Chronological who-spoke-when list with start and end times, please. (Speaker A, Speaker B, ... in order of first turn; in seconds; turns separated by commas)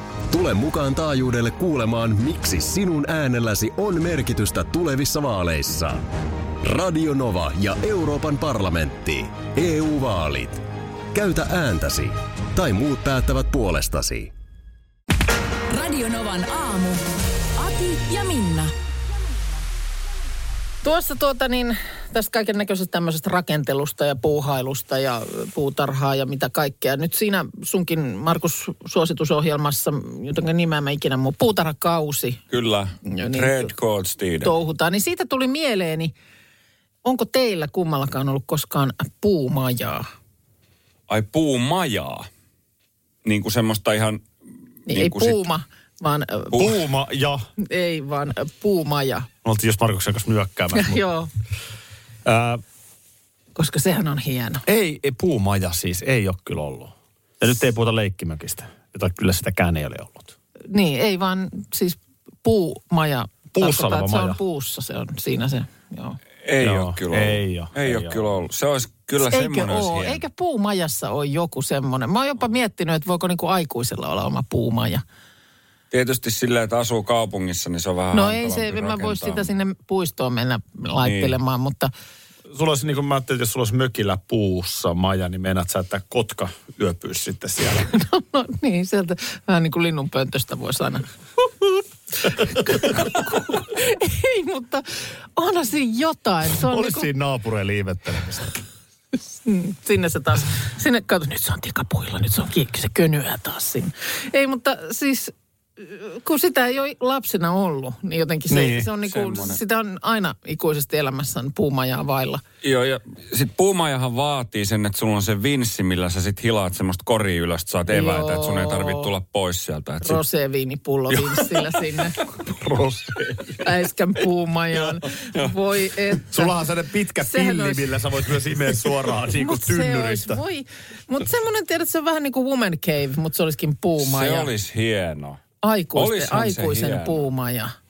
Speaker A: 0.3-6.1, Speaker A: 6.6-10.6, Speaker A: 11.1-14.3, Speaker B: 15.7-17.0, Speaker B: 17.6-18.7, Speaker C: 20.8-32.4, Speaker D: 32.5-34.5, Speaker C: 33.0-33.7, Speaker C: 34.4-36.1, Speaker C: 37.0-40.0, Speaker D: 41.1-42.3, Speaker D: 43.2-44.2, Speaker D: 44.9-45.4, Speaker C: 44.9-46.6, Speaker E: 46.5-47.4, Speaker C: 47.6-49.3, Speaker E: 49.4-51.0, Speaker C: 50.7-51.3, Speaker E: 52.2-52.6, Speaker C: 53.5-54.6, Speaker E: 54.6-60.3, Speaker C: 60.7-66.2, Speaker E: 63.5-64.4, Speaker D: 66.4-70.2, Speaker E: 66.6-68.3, Speaker C: 69.2-75.0, Speaker D: 75.9-79.5, Speaker C: 78.1-81.9, Speaker D: 81.0-81.4, Speaker E: 82.5-87.9, Speaker C: 87.8-91.1, Speaker C: 92.2-97.1, Speaker E: 96.5-98.6, Speaker C: 99.4-112.4, Speaker E: 108.5-108.9, Speaker D: 109.0-109.6, Speaker D: 112.6-120.2, Speaker C: 117.9-119.1, Speaker C: 120.0-122.2, Speaker E: 122.2-123.7, Speaker C: 123.6-126.5, Speaker E: 126.3-130.4, Speaker C: 127.2-128.0, Speaker C: 129.3-134.5, Speaker D: 134.0-135.4, Speaker C: 135.6-137.7, Speaker D: 135.9-137.3